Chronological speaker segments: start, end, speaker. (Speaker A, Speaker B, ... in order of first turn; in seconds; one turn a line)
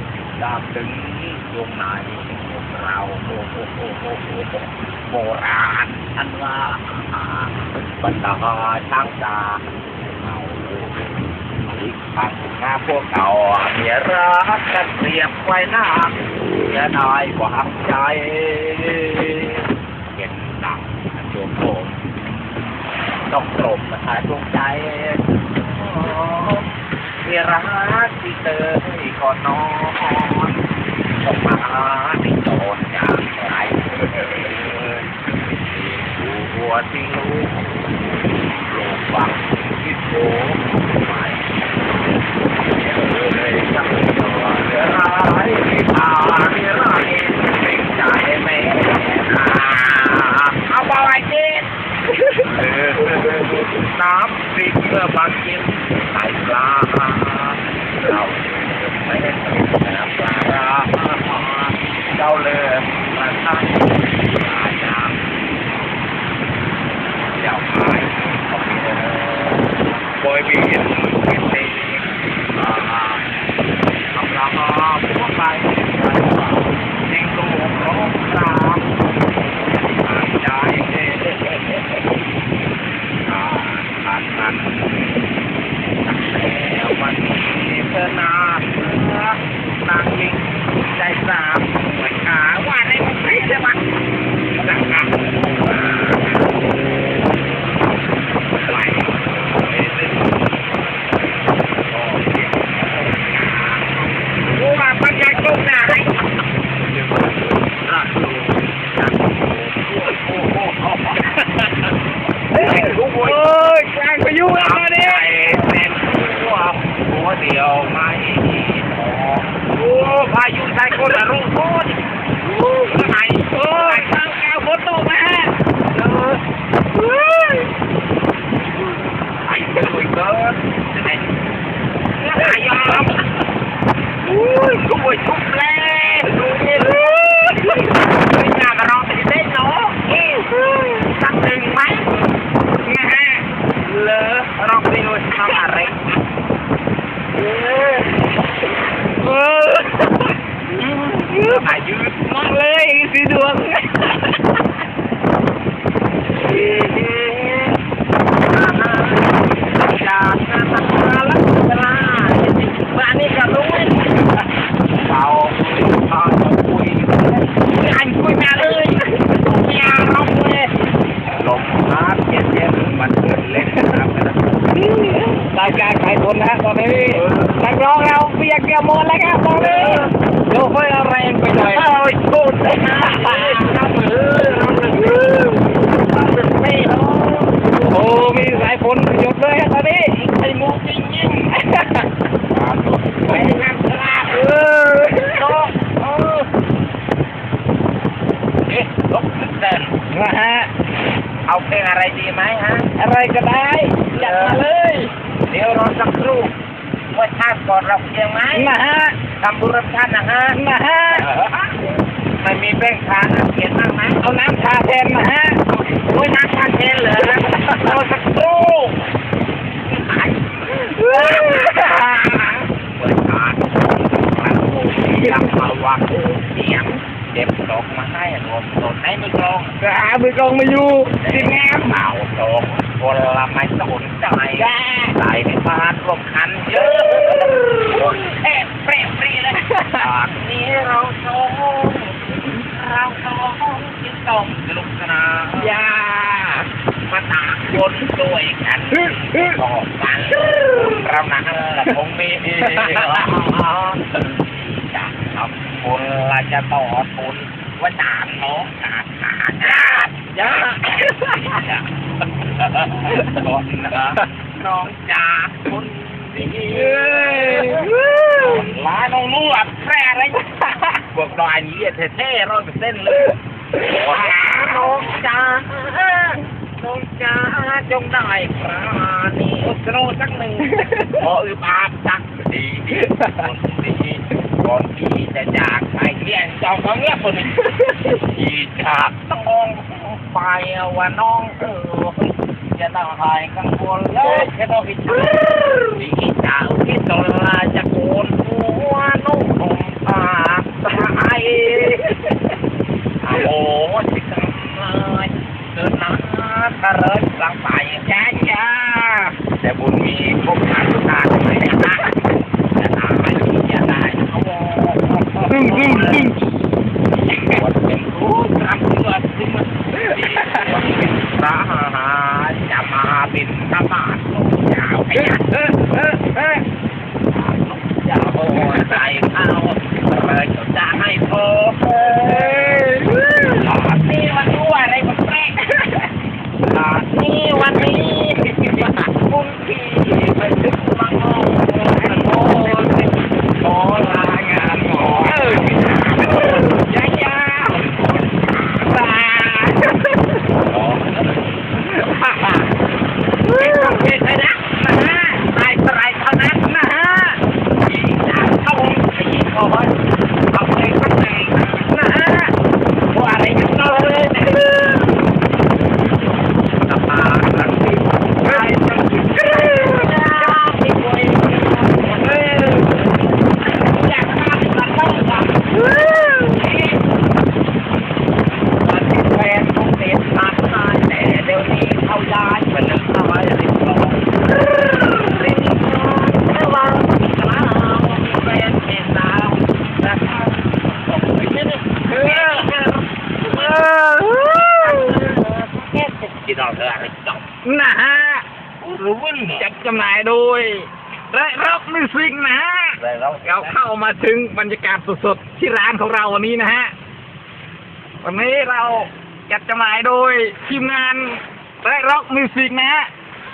Speaker A: 0.4-22.7
Speaker A: 23.3-30.6
Speaker A: 31.2-37.7
Speaker A: 38.6-51.7
Speaker A: 52.3-65.6
Speaker A: 67.3-73.3
Speaker A: 74.1-82.2
Speaker A: 83.3-85.3
Speaker A: 86.0-93.8
Speaker A: 94.6-96.7
Speaker A: 98.5-106.3
Speaker A: 106.9-111.9
Speaker B: 112.5-115.3
Speaker A: 112.6-113.4
Speaker A: 114.5-122.1
Speaker B: 122.4-126.4
Speaker A: 122.6-124.2
Speaker B: 126.9-127.7
Speaker A: 129.4-131.5
Speaker A: 132.2-133.3
Speaker A: 134.3-142.3
Speaker B: 136.4-137.9
Speaker B: 140.5-141.1
Speaker B: 142.8-143.5
Speaker A: 143.8-146.1
Speaker B: 147.4-148.2
Speaker B: 149.2-151.8
Speaker A: 151.5-152.5
Speaker B: 152.3-154.6
Speaker B: 156.5-157.7
Speaker A: 156.5-157.2
Speaker A: 158.4-164.2
Speaker A: 165.0-170.7
Speaker A: 171.3-174.4
Speaker B: 173.5-173.8
Speaker B: 174.8-181.9
Speaker A: 177.2-177.6
Speaker A: 179.5-180.1
Speaker A: 181.6-187.8
Speaker B: 182.8-185.9
Speaker B: 187.7-190.2
Speaker A: 190.1-191.6
Speaker B: 191.6-192.1
Speaker A: 192.5-194.6
Speaker B: 193.3-193.6
Speaker B: 194.3-195.5
Speaker A: 195.1-196.5
Speaker A: 198.7-200.0
Speaker B: 200.1-200.7
Speaker A: 201.5-202.9
Speaker B: 203.0-205.1
Speaker A: 204.1-204.6
Speaker A: 205.5-206.5
Speaker A: 207.1-208.7
Speaker B: 208.5-209.2
Speaker A: 209.4-210.6
Speaker B: 210.6-211.3
Speaker A: 211.1-211.9
Speaker A: 212.4-214.3
Speaker B: 214.2-215.6
Speaker A: 215.9-219.0
Speaker B: 217.3-218.0
Speaker A: 219.8-229.8
Speaker B: 220.7-222.7
Speaker B: 225.2-225.5
Speaker B: 229.8-231.9
Speaker A: 231.2-245.8
Speaker B: 234.6-235.1
Speaker B: 237.2-238.1
Speaker B: 239.7-240.0
Speaker B: 245.6-246.7
Speaker A: 247.1-261.8
Speaker B: 248.9-249.5
Speaker B: 250.4-251.0
Speaker B: 252.8-253.3
Speaker B: 260.7-261.6
Speaker A: 262.4-302.2
Speaker B: 266.7-268.6
Speaker B: 280.7-281.2
Speaker B: 283.1-283.5
Speaker B: 287.7-288.1
Speaker B: 295.4-295.8
Speaker B: 301.8-302.2
Speaker A: 303.2-308.6
Speaker B: 308.4-309.3
Speaker A: 309.5-312.2
Speaker A: 312.8-325.5
Speaker B: 315.5-316.4
Speaker B: 320.1-320.7
Speaker B: 325.2-326.6
Speaker A: 327.3-332.9
Speaker B: 332.1-333.6
Speaker A: 333.5-336.0
Speaker A: 336.6-349.5
Speaker B: 342.1-343.0
Speaker B: 346.3-346.7
Speaker B: 349.1-350.4
Speaker A: 350.5-352.6
Speaker B: 352.0-352.6
Speaker B: 353.4-354.1
Speaker A: 353.5-356.8
Speaker B: 356.6-357.4
Speaker A: 357.8-359.9
Speaker A: 360.5-362.0
Speaker B: 361.9-362.6
Speaker A: 363.1-365.1
Speaker A: 366.8-375.8
Speaker B: 369.2-370.1
Speaker B: 375.8-376.6
Speaker A: 376.4-377.2
Speaker A: 378.6-393.8
Speaker B: 392.1-392.7
Speaker B: 393.5-395.2
Speaker A: 394.7-397.5
Speaker B: 397.6-398.4
Speaker A: 398.8-399.7
Speaker B: 399.6-406.9
Speaker A: 403.0-403.8
Speaker B: 408.2-413.1